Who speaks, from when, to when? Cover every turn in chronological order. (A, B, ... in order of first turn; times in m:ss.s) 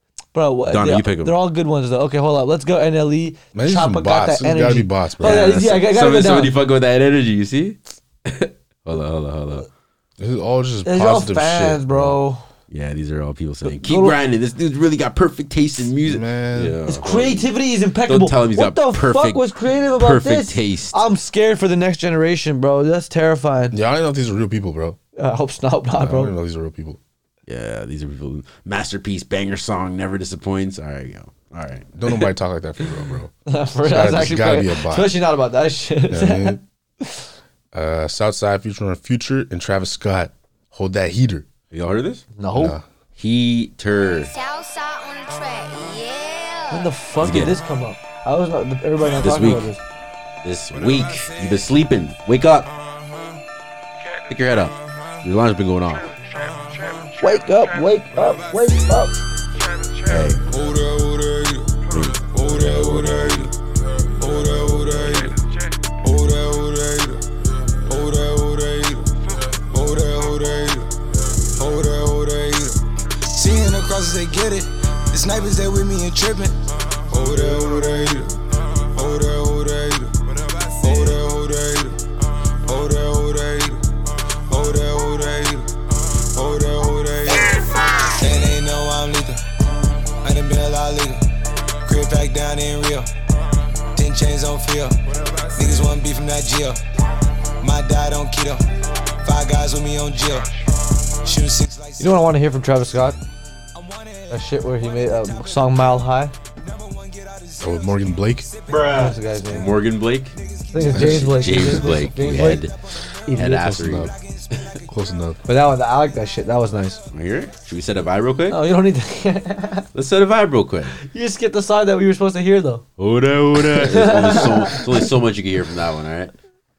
0:00.3-0:06.5 A
0:00.7-0:01.4 B
0:03.5-0:05.7 C
0:05.2-0:09.7 B
0:10.2-0:12.2 C
0:10.8-0:12.4 A
0:12.7-0:17.5 B
0:13.6-0:14.2 A
0:16.0-0:16.8 C
0:16.9-0:23.8 A
0:18.1-0:21.0 B
0:23.7-0:25.0 C
0:25.2-0:26.3 A
0:26.0-0:27.0 C
0:27.5-0:32.3 B
0:31.9-0:33.3 C
0:33.4-0:37.2 A
0:33.8-0:35.2 C
0:36.1-0:36.6 C
0:37.7-0:41.5 C
0:41.7-0:42.3 B
0:42.4-0:42.7 A
0:42.5-0:42.8 C
0:43.2-0:44.3 B
0:44.3-0:46.9 D
0:46.7-0:49.8 A
0:47.2-0:47.6 B
0:49.2-0:49.7 B
0:50.4-0:52.7 B
0:54.3-0:56.1 B
0:56.5-0:57.2 E
0:57.2-0:59.2 A
1:00.1-1:00.4 B
1:00.5-1:03.5 E
1:01.9-1:03.5 B
1:04.2-1:22.0 E
1:22.6-1:29.4 E
1:30.2-1:31.2 E
1:31.8-1:33.1 E
1:33.9-1:35.0 E
1:35.5-1:36.8 E
1:37.6-1:38.6 E
1:39.2-1:40.5 E
1:41.1-1:42.2 E
1:42.0-1:43.2 A
1:43.7-1:44.4 E
1:44.3-1:46.3 A
1:45.1-1:45.3 E
1:46.6-1:49.2 E
1:47.6-1:48.5 C
1:48.9-1:49.7 A
1:49.5-1:50.4 B
1:50.3-1:50.9 E
1:50.7-1:52.6 A
1:50.9-1:52.8 B
1:53.2-1:53.9 A
1:53.3-1:54.7 B
1:53.7-1:54.1 C
1:54.0-1:54.8 E
1:54.9-1:55.4 C
1:55.4-1:57.0 A
1:57.1-1:58.6 B
1:58.5-1:59.9 A
1:59.9-2:01.0 B
2:01.0-2:02.8 A
2:03.0-2:06.3 B
2:03.7-2:05.0 A